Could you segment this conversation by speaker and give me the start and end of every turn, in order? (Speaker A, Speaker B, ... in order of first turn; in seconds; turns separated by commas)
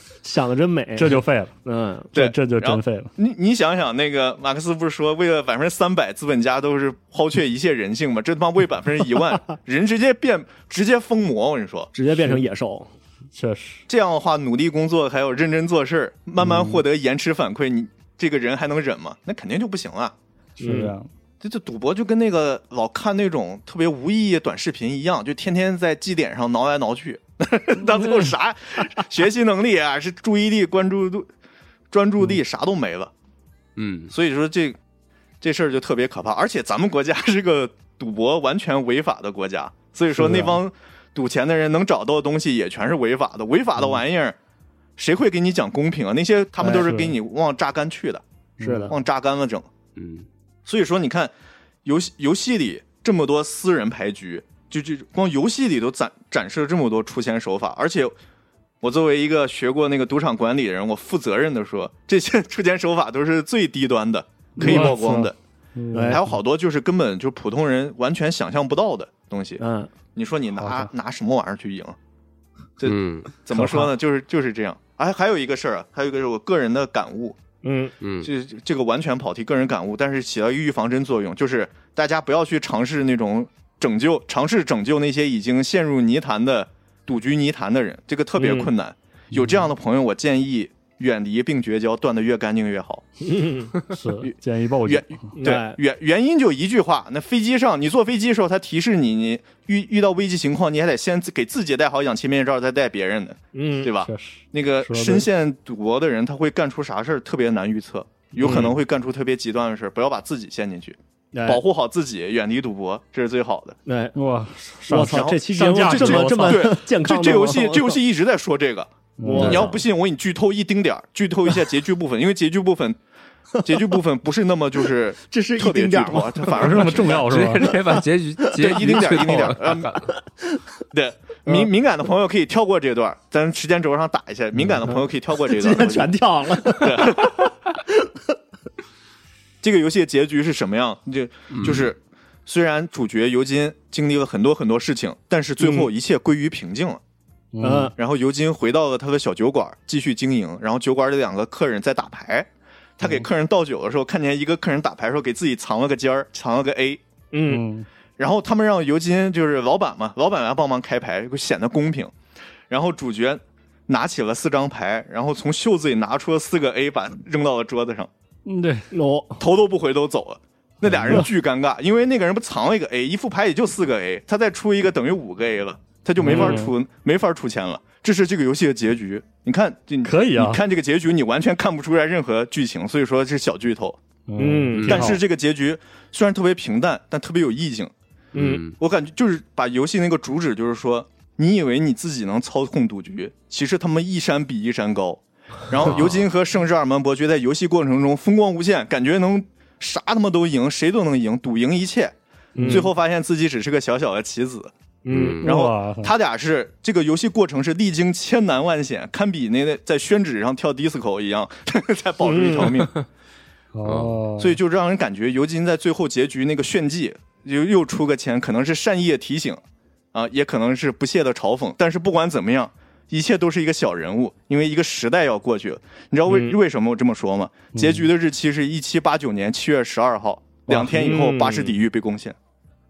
Speaker A: 0.2-2.1, Speaker B: 1.0-1.6, Speaker B: 2.1-3.1, Speaker C: 2.1-11.9, Speaker A: 11.9-12.9, Speaker B: 13.3-13.9, Speaker C: 13.9-20.1, Speaker B: 16.4-16.8, Speaker B: 20.6-21.1, Speaker A: 20.6-20.9, Speaker C: 21.4-31.3, Speaker B: 27.8-28.3, Speaker C: 31.9-33.1, Speaker D: 33.8-34.1, Speaker C: 34.1-34.8, Speaker C: 35.4-44.4, Speaker B: 40.1-40.6, Speaker C: 45.0-48.2, Speaker A: 46.6-46.9, Speaker B: 46.7-47.1, Speaker B: 48.6-49.0, Speaker A: 48.6-48.9, Speaker C: 48.9-49.7, Speaker D: 50.0-50.3, Speaker C: 50.7-51.3, Speaker C: 51.9-58.1, Speaker C: 58.8-65.3, Speaker B: 64.6-66.4, Speaker A: 64.6-65.2, Speaker A: 65.9-66.2, Speaker C: 66.1-69.6, Speaker A: 69.6-69.9, Speaker C: 70.2-72.0, Speaker B: 70.6-70.9, Speaker C: 72.8-77.4, Speaker D: 72.8-73.3, Speaker B: 73.5-73.9, Speaker A: 77.6-77.9, Speaker D: 78.0-78.3, Speaker C: 78.2-93.0, Speaker A: 88.4-88.7, Speaker B: 89.3-89.7, Speaker A: 93.2-93.7, Speaker B: 93.9-95.3, Speaker C: 94.9-113.8, Speaker A: 95.4-95.8, Speaker A: 103.5-103.9, Speaker B: 104.0-105.3, Speaker B: 108.4-108.7, Speaker A: 108.4-108.8, Speaker A: 111.3-111.6, Speaker A: 113.9-114.2, Speaker B: 114.2-116.8, Speaker A: 114.9-118.0, Speaker C: 115.0-123.0, Speaker B: 119.2-119.7, Speaker A: 119.2-119.8, Speaker C: 123.6-127.3, Speaker A: 125.2-127.0, Speaker B: 126.5-127.7, Speaker D: 127.0-130.1, Speaker A: 127.7-128.9, Speaker C: 128.6-130.0, Speaker A: 130.2-130.6, Speaker C: 130.9-136.1, Speaker A: 134.9-138.0, Speaker C: 136.8-137.4, Speaker C: 139.6-147.0, Speaker D: 141.5-141.9, Speaker A: 145.6-145.9, Speaker B: 147.5-147.9, Speaker A: 147.6-147.9, Speaker C: 148.0-157.0, Speaker B: 153.0-153.3, Speaker A: 157.3-157.6, Speaker B: 157.5-157.9, Speaker C: 158.2-162.1, Speaker C: 162.7-168.1, Speaker B: 168.5-168.9, Speaker A: 168.9-169.4, Speaker C: 169.4-184.0, Speaker B: 170.8-171.3, Speaker B: 176.2-176.7, Speaker A: 176.2-176.7, Speaker B: 180.0-180.6, Speaker B: 184.3-185.2, Speaker A: 184.4-185.1, Speaker D: 184.8-185.1, Speaker C: 184.9-187.9, Speaker A: 188.3-188.6, Speaker D: 188.3-188.8, Speaker C: 188.8-204.7, Speaker D: 195.8-196.2, Speaker A: 202.6-202.9, Speaker B: 202.6-202.9, Speaker A: 205.0-205.4, Speaker D: 205.1-205.5, Speaker B: 205.4-206.1, Speaker C: 205.4-213.0, Speaker A: 212.2-212.8, Speaker B: 213.7-214.6, Speaker D: 213.8-214.2, Speaker C: 214.4-219.6, Speaker C: 220.1-232.4, Speaker A: 226.3-226.6, Speaker B: 227.7-228.1, Speaker A: 230.7-231.8